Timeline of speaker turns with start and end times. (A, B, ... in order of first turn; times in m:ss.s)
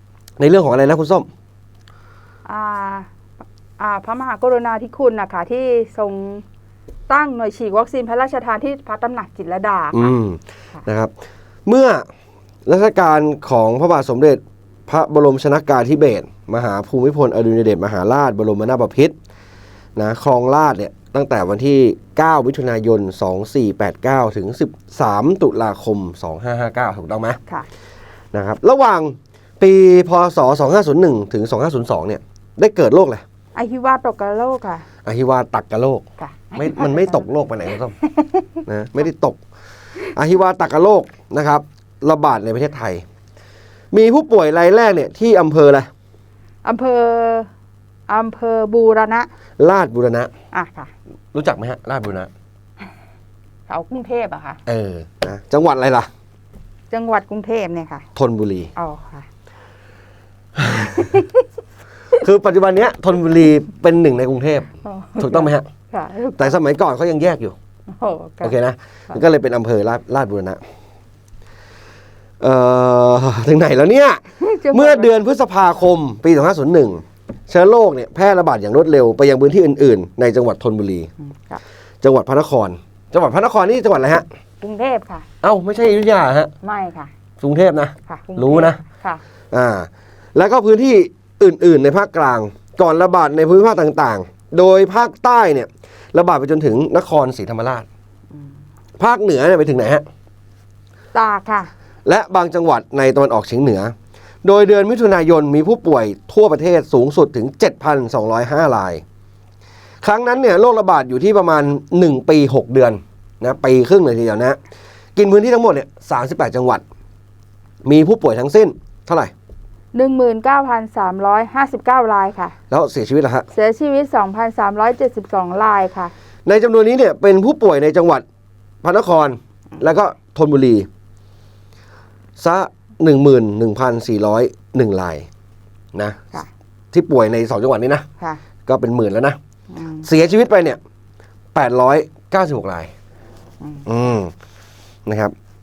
0:00.4-0:01.3 A
0:02.4-0:03.1 B
0:03.8-0:06.4 B
0:07.1-0:10.1 B
0:09.9-0:11.1 A
0:11.6-0:12.0 A
0:12.6-0:19.1 A
0:20.0-0:27.4 A
0:28.3-0:33.2 A
0:33.6-0:34.9 B
0:35.0-0:36.0 A
0:36.2-0:37.2 B
0:36.6-0:38.0 A
0:38.0-0:38.6 B
0:38.7-0:39.4 A
0:40.1-0:43.0 A
0:43.9-0:45.9 A
0:46.6-0:47.5 B
0:48.1-0:49.3 B
0:49.6-0:50.3 A
0:50.5-0:50.9 B
0:51.3-0:52.3 A
0:53.7-0:54.6 B
0:54.7-0:56.1 A
0:56.9-0:58.1 B
0:58.1-0:58.7 A
0:58.8-0:59.3 B
1:00.6-1:01.0 A
1:01.0-1:01.3 B
1:02.2-1:05.7 A
1:04.8-1:06.6 B
1:06.4-1:07.6 A
1:07.9-1:08.5 B
1:08.4-1:10.6 A
1:12.4-1:21.1 A
1:14.4-1:15.1 B
1:21.2-1:21.6 B
1:22.0-1:24.3 A
1:24.6-1:25.3 B
1:25.4-1:26.5 A
1:26.6-1:27.1 B
1:27.4-1:28.8 A
1:28.1-1:29.2 B
1:29.5-1:37.9 A
1:39.0-1:40.0 A
1:41.1-1:41.7 B
1:42.1-1:49.0 A
1:50.0-1:54.6 A
1:55.2-1:56.8 A
1:57.8-1:59.3 A
1:59.9-2:02.6 B
2:02.7-2:03.5 A
2:03.5-2:06.1 B
2:06.4-2:08.2 A
2:08.8-2:10.9 A
2:12.4-2:15.3 A
2:15.9-2:16.2 A
2:16.9-2:18.0 A
2:18.7-2:19.4 A
2:19.7-2:20.1 B
2:20.0-2:20.8 A
2:21.5-2:22.9 A
2:23.6-2:23.8 B
2:23.8-2:24.3 A
2:25.0-2:25.3 A